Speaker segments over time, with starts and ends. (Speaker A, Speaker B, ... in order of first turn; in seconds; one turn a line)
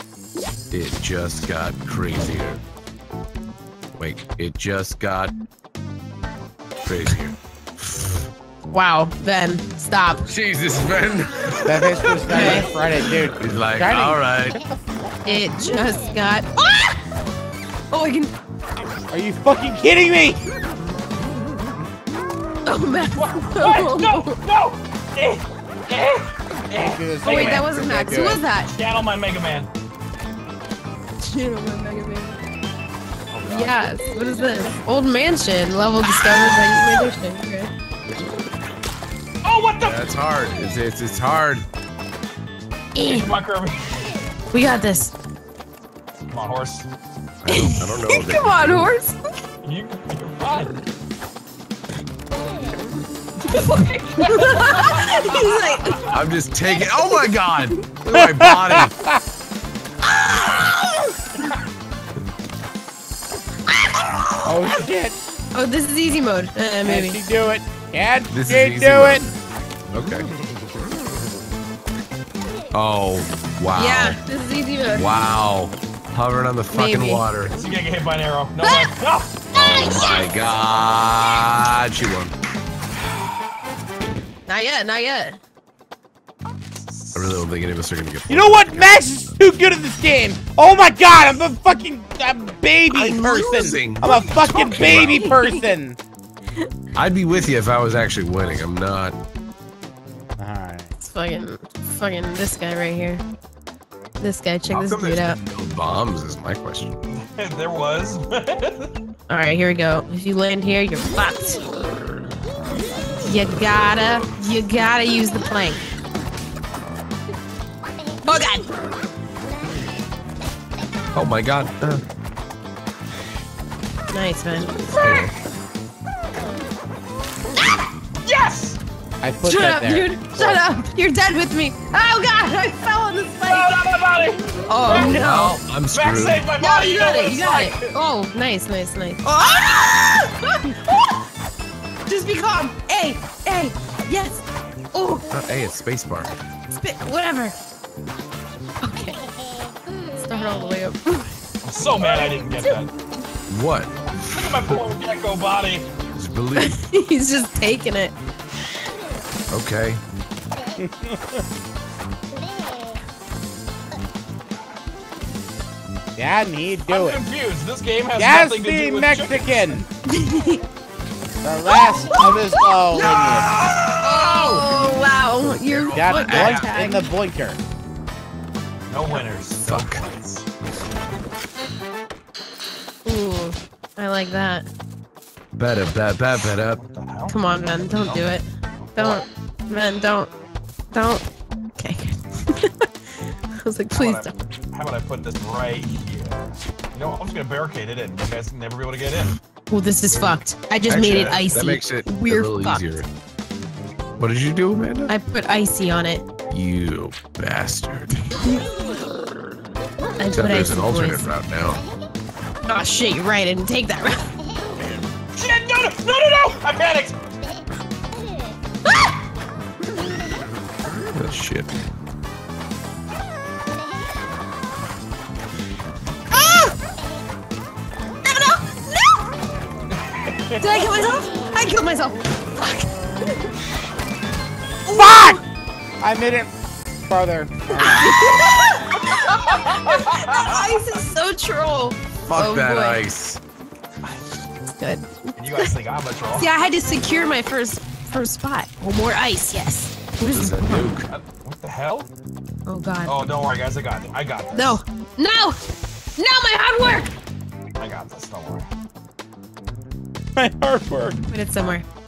Speaker A: 0.7-2.6
Speaker A: 4.0-5.3
Speaker A: 6.8-8.2
Speaker B: 8.7-10.3
Speaker A: 10.3-12.6
Speaker C: 11.7-14.8
Speaker B: 12.3-12.7
Speaker A: 13.4-14.6
Speaker B: 15.2-17.0
Speaker B: 17.9-18.3
Speaker C: 19.1-20.4
Speaker B: 22.7-24.4
Speaker D: 23.1-29.7
Speaker C: 26.8-28.4
Speaker B: 27.2-28.7
Speaker B: 31.2-32.4
Speaker A: 33.3-33.8
Speaker B: 33.5-37.7
Speaker D: 36.1-37.0
Speaker D: 39.4-40.1
Speaker A: 39.8-41.7
Speaker B: 43.0-43.4
Speaker D: 43.0-44.1
Speaker B: 44.5-45.1
Speaker D: 46.3-46.9
Speaker A: 47.4-48.9
Speaker B: 47.5-49.2
Speaker D: 49.6-50.8
Speaker D: 53.5-55.8
Speaker B: 53.5-56.1
Speaker A: 56.1-59.0
Speaker C: 58.1-59.1
Speaker C: 64.5-65.2
Speaker B: 65.5-67.2
Speaker C: 66.8-69.3
Speaker A: 68.3-69.3
Speaker A: 69.9-70.3
Speaker A: 72.7-74.2
Speaker B: 73.8-75.1
Speaker A: 74.9-77.6
Speaker B: 76.7-77.2
Speaker D: 77.5-79.4
Speaker B: 78.6-78.9
Speaker B: 79.5-80.3
Speaker A: 79.5-82.3
Speaker B: 84.5-85.4
Speaker D: 86.9-87.4
Speaker A: 87.2-89.3
Speaker C: 88.3-96.0
Speaker A: 92.9-95.3
Speaker B: 93.0-93.5
Speaker B: 94.0-95.7
Speaker A: 97.0-99.2
Speaker C: 100.4-100.9
Speaker B: 101.0-103.2
Speaker B: 104.2-105.4
Speaker A: 104.7-107.0
Speaker D: 107.1-108.9
Speaker B: 109.3-111.6
Speaker B: 113.2-115.8
Speaker B: 118.2-118.7
Speaker A: 121.1-122.0
Speaker B: 124.1-124.8
Speaker D: 124.9-125.3
Speaker A: 125.0-125.3
Speaker D: 128.2-128.8
Speaker C: 129.2-130.4
Speaker B: 129.4-133.9
Speaker D: 133.4-137.9
Speaker B: 134.7-135.6
Speaker A: 134.9-136.5
Speaker B: 136.6-141.1
Speaker B: 142.1-145.4
Speaker A: 145.3-146.3
Speaker B: 146.7-147.5
Speaker B: 148.8-149.2
Speaker B: 150.1-151.4
Speaker D: 151.6-152.9
Speaker A: 153.5-154.6
Speaker D: 154.3-155.9
Speaker A: 156.2-156.8
Speaker B: 156.6-158.2
Speaker A: 159.5-160.0
Speaker C: 160.8-161.4
Speaker C: 166.2-167.2
Speaker D: 166.9-169.8
Speaker C: 168.2-169.9
Speaker B: 170.1-170.6
Speaker C: 171.4-173.5
Speaker B: 171.7-172.7
Speaker D: 172.9-174.7
Speaker B: 174.0-177.1
Speaker A: 174.9-176.7
Speaker C: 175.9-177.6
Speaker D: 178.9-180.4
Speaker A: 179.7-180.0
Speaker B: 183.1-184.7
Speaker A: 185.6-186.8
Speaker D: 186.7-188.4
Speaker B: 187.3-190.3
Speaker D: 188.9-189.3
Speaker B: 190.9-191.2
Speaker B: 191.8-192.9
Speaker B: 193.6-194.4
Speaker D: 193.9-199.4
Speaker B: 199.7-202.9
Speaker A: 200.9-203.1
Speaker A: 204.2-205.1
Speaker B: 205.1-206.2
Speaker A: 206.5-208.4
Speaker B: 210.2-211.3
Speaker A: 210.3-211.8
Speaker B: 212.6-214.3
Speaker D: 215.3-217.2
Speaker A: 221.1-221.7
Speaker B: 226.3-226.8
Speaker B: 228.2-229.3
Speaker D: 229.9-231.0
Speaker B: 230.6-233.5
Speaker B: 234.8-235.4
Speaker C: 234.9-235.4
Speaker C: 236.0-236.5
Speaker C: 237.1-238.4
Speaker B: 237.7-243.0
Speaker D: 239.3-241.0
Speaker A: 242.3-243.4
Speaker D: 244.0-244.4
Speaker B: 244.8-245.7
Speaker D: 245.4-246.5
Speaker B: 246.3-250.9
Speaker A: 250.3-251.1
Speaker D: 251.1-252.1
Speaker B: 252.7-253.3
Speaker D: 253.1-254.8
Speaker B: 254.5-255.6
Speaker B: 256.2-257.1
Speaker D: 257.8-258.7
Speaker C: 260.4-261.2
Speaker B: 261.3-261.9